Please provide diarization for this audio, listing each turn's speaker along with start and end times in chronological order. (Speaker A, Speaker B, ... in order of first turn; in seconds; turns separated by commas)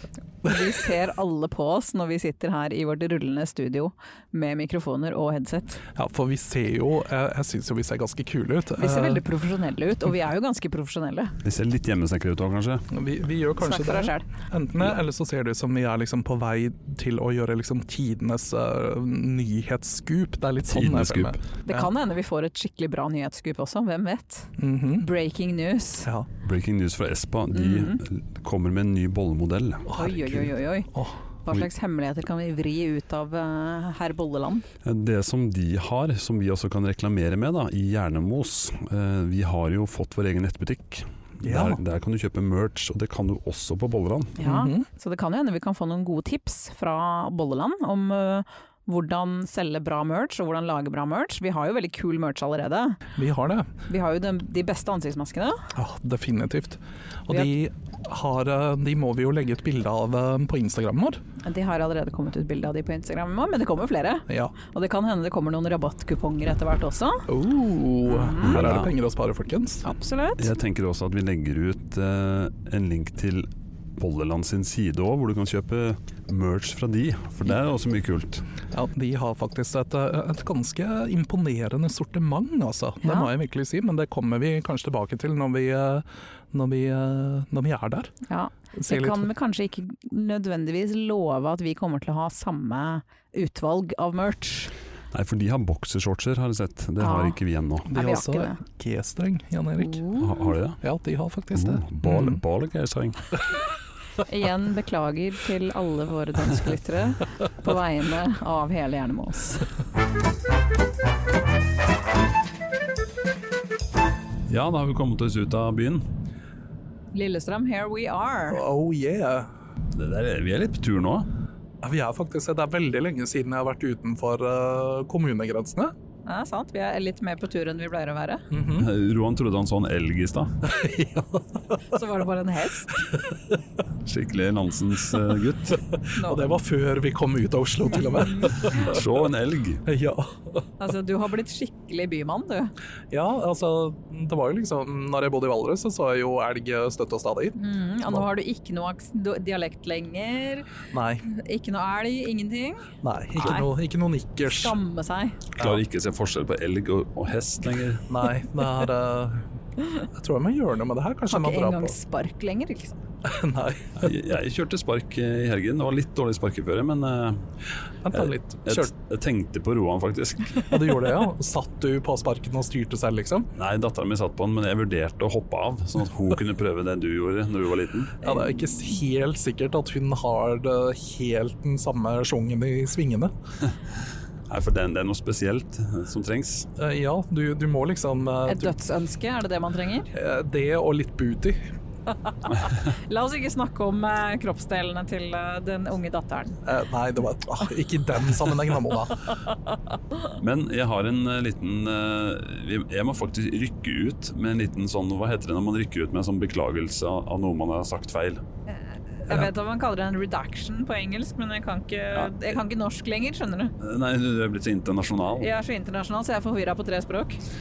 Speaker A: 0.4-5.8, Speaker B: 6.0-9.2, Speaker A: 8.8-11.3, Speaker C: 11.4-12.9, Speaker B: 12.9-21.9, Speaker A: 13.6-14.3, Speaker C: 20.7-21.4, Speaker A: 21.7-26.1, Speaker B: 24.6-25.1, Speaker C: 26.4-29.9, Speaker A: 27.5-28.0, Speaker B: 29.9-31.2, Speaker A: 29.9-30.9, Speaker A: 31.4-34.6, Speaker C: 34.8-44.4, Speaker B: 41.4-41.8, Speaker A: 44.4-53.0, Speaker B: 44.4-44.9, Speaker B: 53.2-53.7, Speaker A: 53.9-55.7, Speaker B: 55.8-61.2, Speaker A: 61.4-67.3, Speaker B: 64.3-64.5, Speaker B: 67.3-69.8, Speaker A: 68.1-68.6, Speaker C: 68.4-68.9, Speaker A: 69.8-70.5, Speaker C: 70.4-78.5, Speaker B: 78.7-88.1, Speaker A: 83.0-83.3, Speaker A: 88.3-94.7, Speaker B: 88.8-89.3, Speaker C: 95.1-97.9, Speaker A: 97.0-97.4, Speaker B: 97.9-100.0, Speaker A: 97.9-98.6, Speaker A: 99.8-100.5, Speaker C: 100.2-100.8, Speaker B: 100.8-102.4, Speaker C: 101.5-103.3, Speaker A: 104.2-109.7, Speaker C: 114.5-116.0, Speaker A: 117.1-118.6, Speaker B: 118.5-119.5, Speaker C: 119.9-121.3, Speaker B: 121.8-125.9, Speaker A: 126.2-128.4, Speaker B: 128.5-128.9, Speaker C: 128.8-130.6, Speaker B: 130.6-131.5, Speaker A: 131.9-133.1, Speaker C: 134.1-135.8, Speaker A: 136.2-136.6, Speaker B: 136.2-139.0, Speaker C: 138.6-139.8, Speaker B: 139.9-140.6, Speaker A: 140.8-142.7, Speaker B: 143.1-147.6, Speaker A: 147.6-150.7, Speaker B: 150.9-151.2, Speaker A: 151.2-153.7, Speaker B: 153.0-154.8, Speaker A: 154.4-155.4, Speaker C: 155.6-158.1, Speaker B: 158.1-159.4, Speaker B: 160.1-161.9, Speaker A: 161.3-163.0, Speaker B: 163.3-164.1, Speaker C: 164.0-167.4, Speaker B: 168.1-168.9, Speaker C: 168.1-170.9, Speaker B: 170.7-173.5, Speaker C: 173.6-178.3, Speaker B: 178.2-183.3, Speaker C: 184.5-186.7, Speaker B: 186.8-188.7, Speaker A: 188.5-190.1, Speaker B: 190.1-191.6, Speaker A: 192.4-196.6, Speaker B: 196.7-199.2, Speaker C: 200.4-208.4, Speaker A: 208.7-213.7, Speaker C: 212.2-212.6, Speaker C: 213.8-215.5, Speaker A: 215.4-217.4